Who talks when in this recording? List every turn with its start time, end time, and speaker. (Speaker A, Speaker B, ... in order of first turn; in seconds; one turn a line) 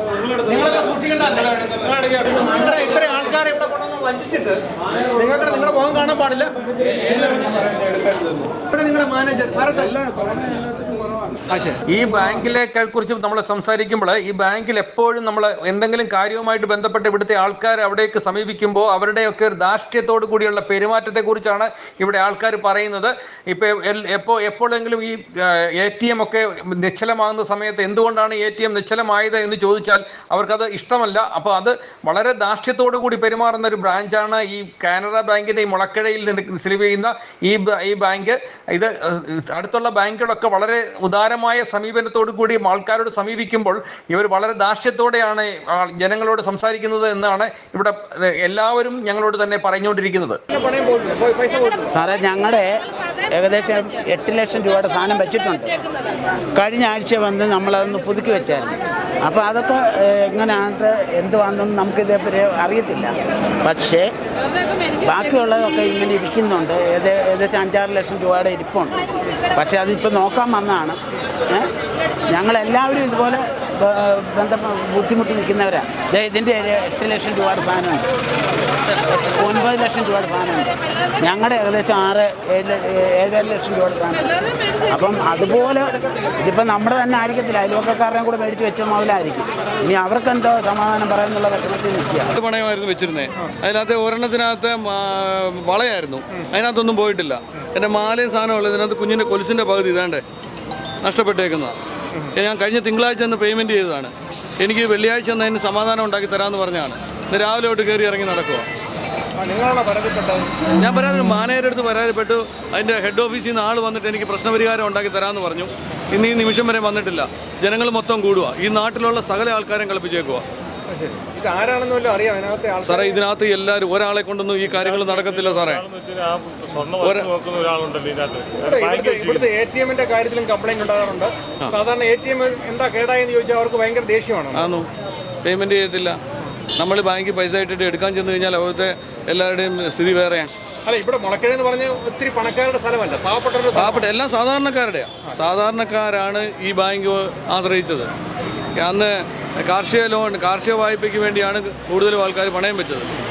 Speaker A: 0.3-4.6
Speaker A: 5.1-6.5
Speaker A: 7.1-7.6
Speaker A: 8.7-10.5
Speaker A: 11.5-51.9
Speaker B: 51.9-55.8
Speaker B: 56.5-64.1
Speaker B: 65.0-69.0
Speaker B: 69.5-71.7
Speaker B: 72.3-78.1
Speaker B: 79.0-92.3
Speaker C: 92.3-100.2
Speaker C: 101.0-101.8
Speaker C: 102.3-108.7
Speaker A: 109.4-110.6
Speaker C: 110.8-120.4
Speaker A: 120.9-123.2
Speaker C: 122.8-125.9
Speaker A: 124.8-125.2
Speaker D: 125.0-129.5
Speaker C: 127.0-127.3
Speaker A: 128.6-134.7
Speaker C: 134.5-134.9
Speaker C: 135.4-136.2
Speaker C: 136.8-140.5
Speaker A: 140.8-144.1
Speaker C: 143.7-148.1
Speaker C: 148.8-153.1